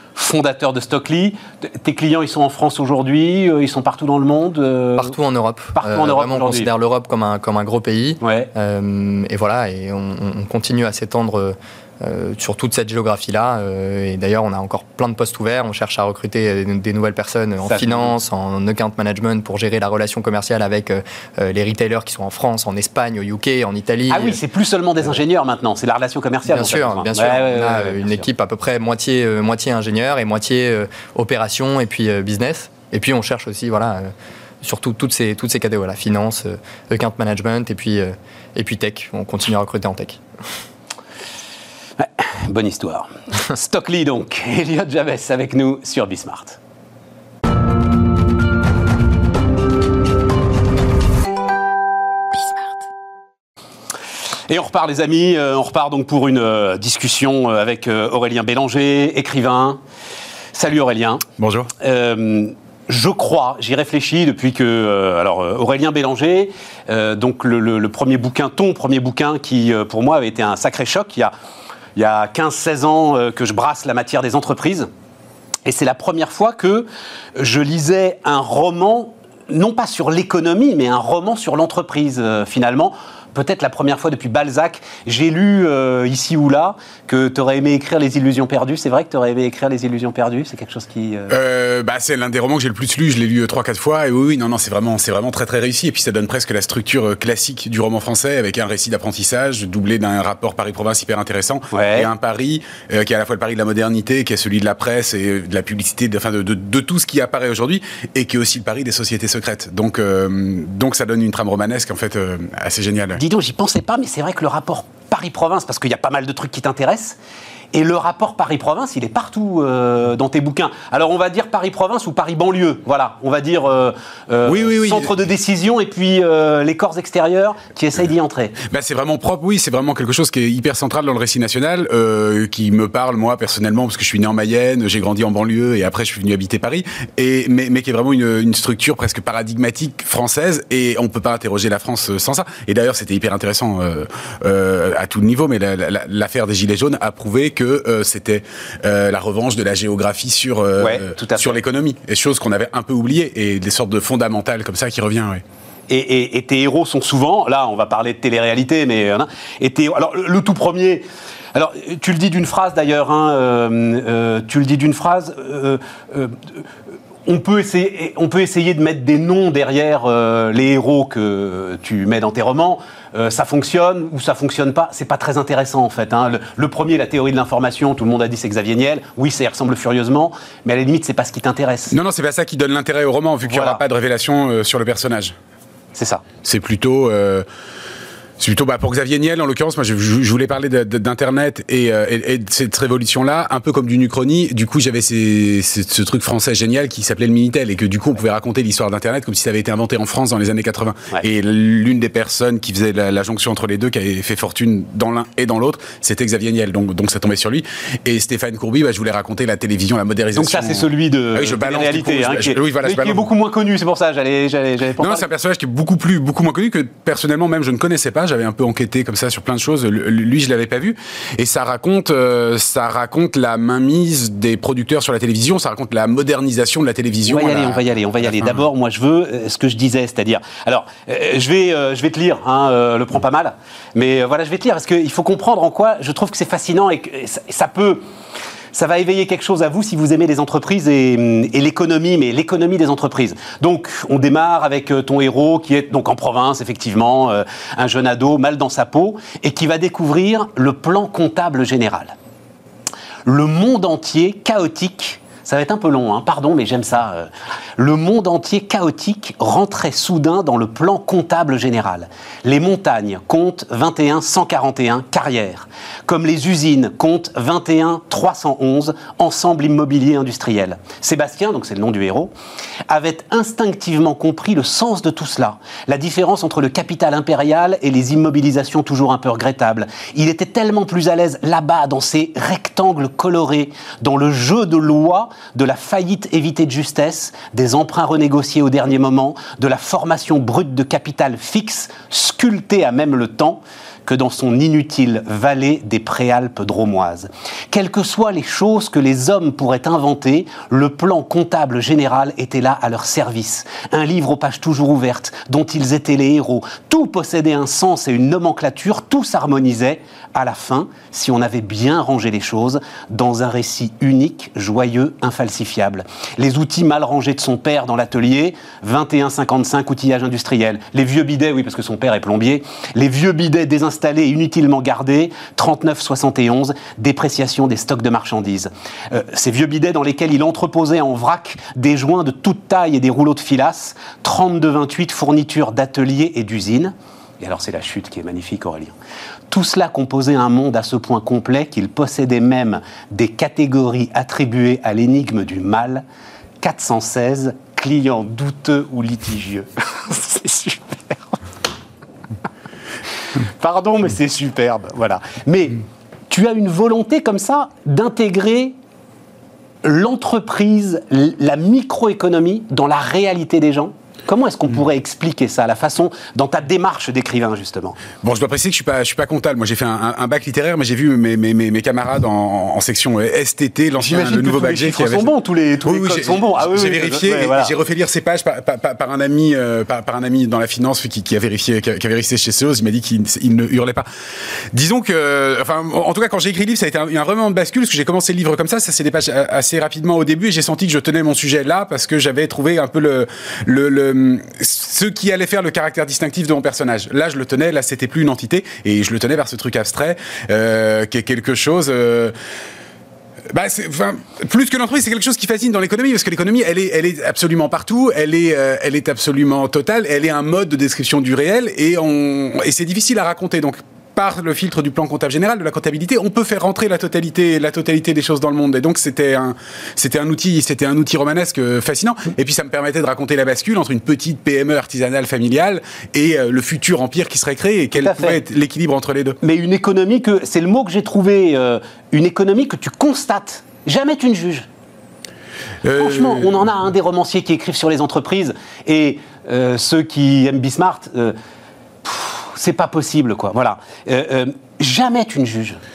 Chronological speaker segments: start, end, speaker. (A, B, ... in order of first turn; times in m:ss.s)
0:00.2-0:05.1 A
0:05.0-0:24.4 B
0:05.8-0:06.7 A
0:08.2-0:08.5 A
0:17.6-0:18.1 A
0:24.1-0:28.3 A
0:26.5-0:34.1 B
0:34.6-0:40.2 B
0:42.0-0:46.6 A
0:54.5-0:59.8 A
1:00.5-1:01.2 A
1:01.4-1:01.7 C
1:01.8-1:11.3 A
1:12.0-1:14.9 A
1:15.6-1:31.4 A
1:31.3-1:53.2 C
1:41.7-1:42.1 A
1:53.2-1:57.2 A
1:57.7-2:08.6 A
2:04.5-2:05.1 C
2:08.7-2:35.4 C
2:30.8-2:31.6 A
2:35.9-2:46.6 A
2:47.3-3:02.0 A
3:01.9-3:05.4 C
3:03.5-3:03.8 A
3:06.0-3:06.2 A
3:06.4-3:07.4 C
3:08.4-3:33.3 C
3:30.4-3:35.2 A
3:35.0-3:48.6 C
3:47.3-3:58.0 A
3:58.7-4:12.1 A
4:13.2-4:32.3 A
4:32.9-5:38.9 A
5:39.5-5:46.0 A
5:46.6-5:51.4 A
5:53.4-5:58.8 A
5:59.8-6:08.0 A
6:08.2-6:15.3 C
6:14.0-6:17.7 A
6:15.8-6:24.1 C
6:24.7-6:42.3 C
6:43.5-7:09.4 C
7:07.9-7:08.4 A
7:09.4-7:14.7 A
7:15.8-7:16.6 C
7:15.9-7:21.4 A
7:22.0-7:25.8 A